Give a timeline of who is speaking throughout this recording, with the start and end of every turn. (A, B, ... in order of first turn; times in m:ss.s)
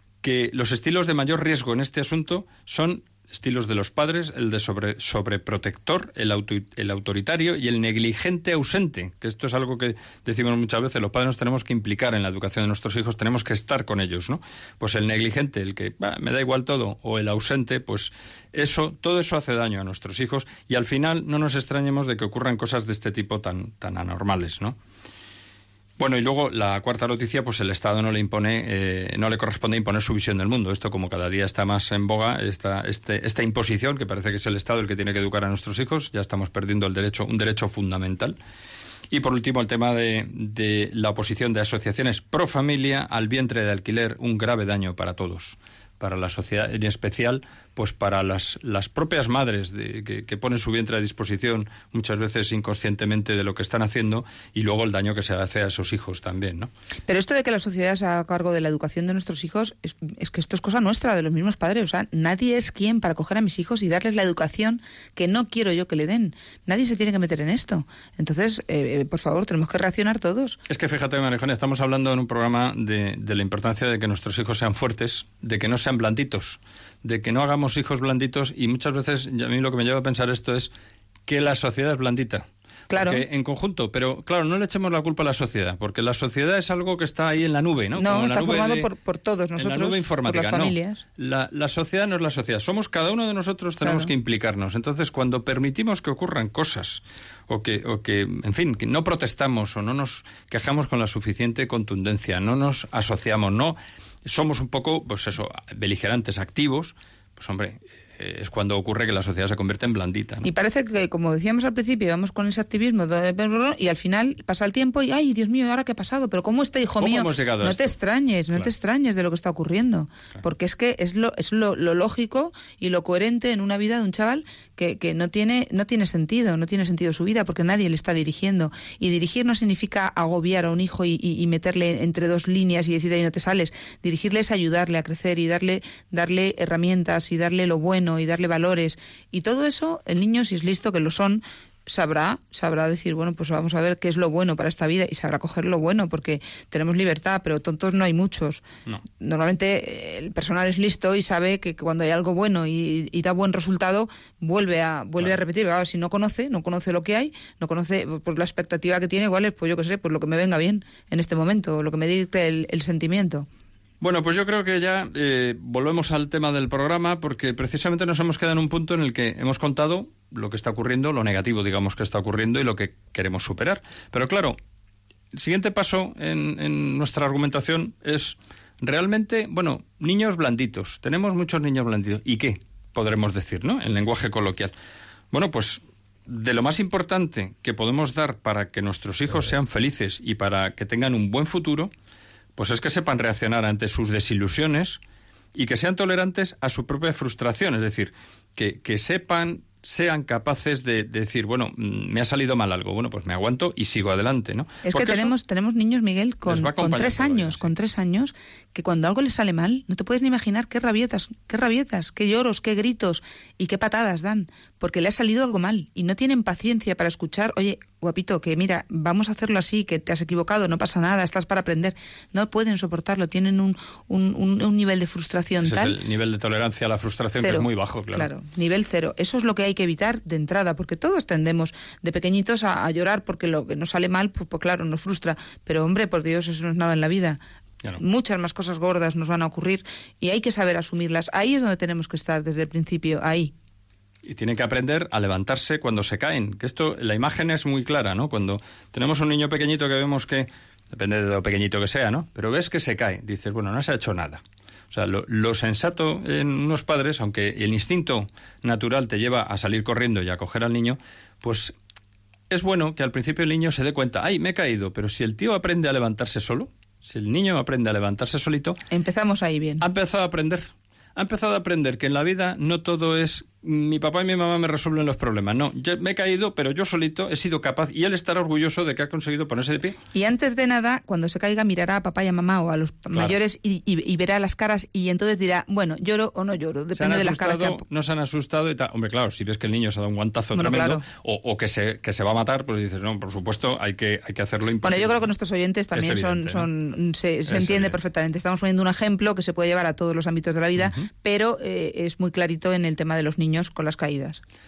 0:00.2-0:24.8 A
0:26.0-0:38.4 A
0:39.1-0:56.7 A
0:57.1-1:10.6 B
1:10.7-1:20.7 A
1:21.3-1:28.9 A
1:22.9-1:23.2 B
1:28.0-1:31.0 B
1:29.6-1:50.5 A
1:33.8-1:34.1 B
1:50.4-2:43.5 B
1:57.0-1:57.9 A
2:44.0-2:54.6 A
2:55.3-3:04.7 A
3:05.3-3:11.9 A
3:12.6-3:15.0 A
3:15.6-3:25.4 A
3:24.8-3:46.0 B
3:26.4-3:27.7 A
3:45.6-3:48.3 A
3:47.4-3:57.4 B
3:58.0-4:03.5 B
4:04.2-4:21.7 A
4:22.5-4:28.8 A
4:28.9-4:29.8 B
4:29.8-4:40.0 A
4:40.1-4:47.8 B
4:47.0-4:55.3 A
4:50.5-4:51.0 B
4:54.8-5:04.4 B
4:56.0-4:56.7 A
4:57.5-4:58.0 A
5:00.8-5:01.0 A